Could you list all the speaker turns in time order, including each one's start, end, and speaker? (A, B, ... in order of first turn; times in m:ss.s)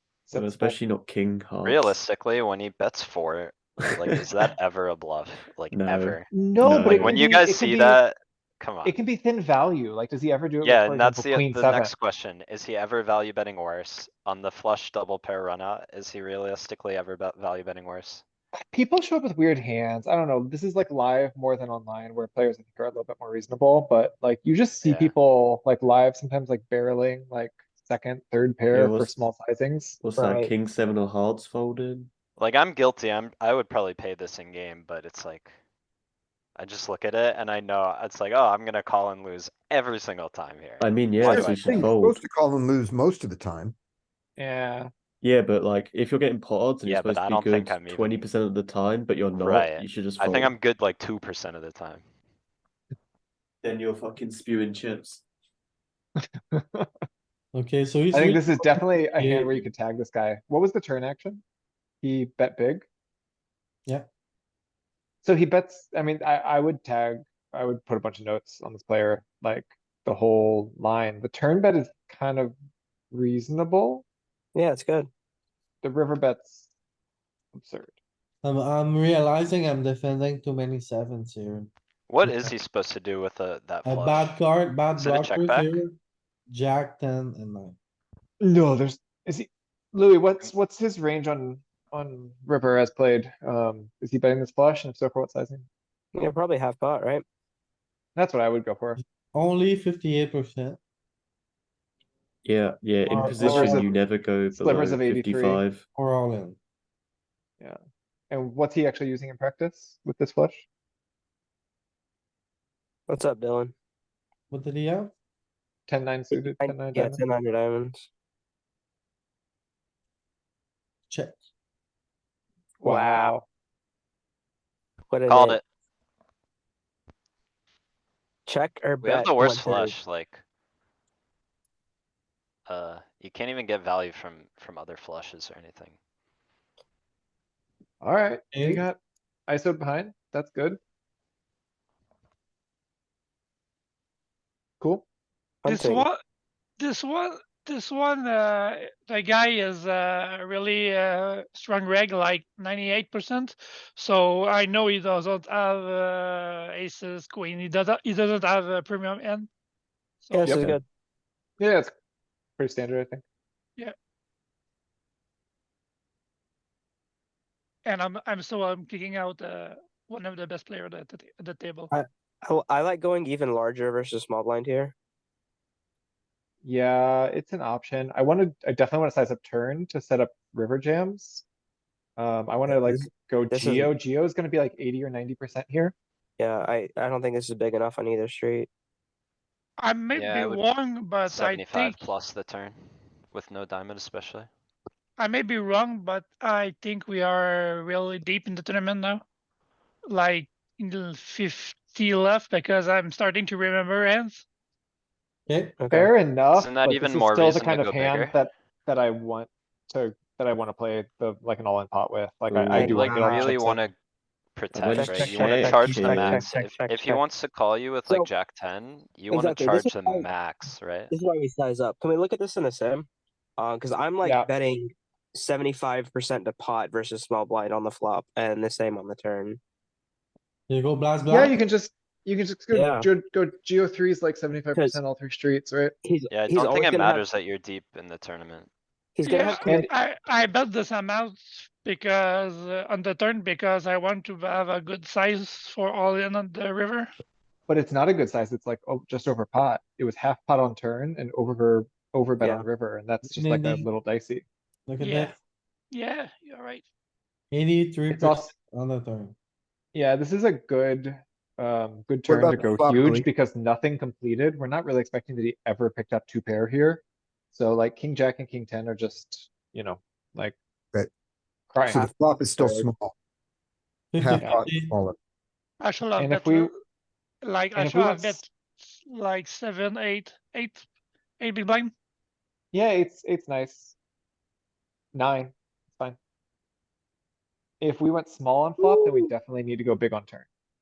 0:00.3-0:00.8 A
0:00.3-0:02.0 B
0:01.6-0:06.3 C
0:05.7-0:07.2 B
0:06.3-0:08.0 A
0:06.9-0:09.0 C
0:08.8-0:11.9 A
0:10.6-0:18.2 C
0:18.7-0:30.0 A
0:24.8-0:25.1 C
0:28.7-0:29.2 B
0:30.0-0:32.1 B
0:30.2-0:30.5 D
0:32.4-0:35.5 C
0:36.6-0:41.9 C
0:40.8-0:42.2 B
0:41.3-0:41.7 A
0:41.4-0:43.7 E
0:44.4-0:44.9 A
0:45.2-0:50.5 B
0:46.8-0:48.2 C
0:49.3-0:52.0 C
0:53.6-0:55.2 B
0:56.2-0:56.9 A
0:57.5-0:59.7 F
0:58.1-1:01.4 A
1:02.0-1:02.8 A
1:05.2-1:12.5 A
1:13.1-1:14.0 A
1:14.5-1:15.1 D
1:15.8-1:16.7 A
1:17.5-1:18.0 A
1:18.4-1:21.7 F
1:22.1-1:24.4 C
1:22.2-1:22.5 F
1:23.8-1:26.0 F
1:25.0-1:25.8 C
1:26.5-1:27.8 F
1:28.4-1:35.7 A
1:36.1-1:37.2 D
1:38.2-1:39.0 A
1:39.3-1:40.8 F
1:42.4-1:45.8 B
1:43.0-1:43.9 F
1:43.2-1:43.9 A
1:44.5-1:45.6 A
1:45.9-1:46.6 F
1:48.3-1:50.6 A
1:53.1-1:53.7 D
1:54.5-1:55.1 F
1:55.9-1:57.2 A
1:56.3-1:58.0 D
2:01.1-2:01.4 F
2:02.8-2:03.4 A
2:02.8-2:03.3 D
2:05.1-2:05.6 D
2:05.3-2:05.6 C
2:08.4-2:10.0 D
2:09.0-2:10.4 C
2:12.7-2:16.0 C
2:18.0-2:19.0 A
2:18.5-2:18.8 F
2:19.5-2:20.8 A
2:24.8-2:25.0 A
2:25.6-2:26.0 D
2:25.6-2:26.2 G
2:26.8-2:39.5 G
2:40.2-2:40.6 G
2:40.3-2:40.8 D
2:40.4-2:40.8 A
2:41.6-2:41.9 A
2:42.6-2:43.2 A
2:47.8-2:51.9 G
2:51.9-2:54.9 D
2:56.6-3:01.4 A
3:02.2-3:05.9 A
3:02.7-3:03.9 D
3:06.4-3:08.7 D
3:09.8-3:12.0 G
3:10.1-3:10.6 C
3:11.2-3:14.5 C
3:15.2-3:19.2 G
3:20.1-3:24.4 G
3:25.5-3:25.8 F
3:25.8-3:26.1 D
3:25.9-3:33.8 A
3:26.5-3:28.4 C
3:32.5-3:33.0 B
3:32.7-3:33.7 D
3:32.8-3:33.9 C
3:33.0-3:33.4 E
3:34.6-3:41.1 C
3:34.7-3:36.4 B
3:34.9-3:37.2 D
3:39.3-3:40.3 D
3:41.1-3:43.1 D
3:43.6-3:49.6 D
3:44.2-3:44.5 A
3:50.7-3:51.6 F
3:51.3-3:56.0 A
3:52.7-3:53.1 D
3:56.0-3:57.2 D
3:56.3-3:58.7 C
3:59.2-3:59.8 D
3:59.2-4:07.1 G
3:59.6-3:59.9 A
4:07.7-4:14.4 A
4:12.4-4:12.6 D
4:13.2-4:13.9 F
4:14.9-4:15.3 F
4:15.0-4:15.3 G
4:15.9-4:16.8 G
4:17.5-4:19.3 F
4:18.1-4:18.5 A
4:19.9-4:30.6 A
4:22.3-4:23.3 E
4:31.7-4:32.1 A
4:31.9-4:33.1 E
4:34.1-4:34.9 F
4:34.2-4:35.2 E
4:35.8-4:36.7 G
4:36.2-4:36.7 A
4:37.4-4:40.8 G
4:37.7-4:38.4 A
4:41.4-4:41.9 G
4:42.7-4:44.0 A
4:45.1-4:46.2 A
4:47.8-4:50.5 A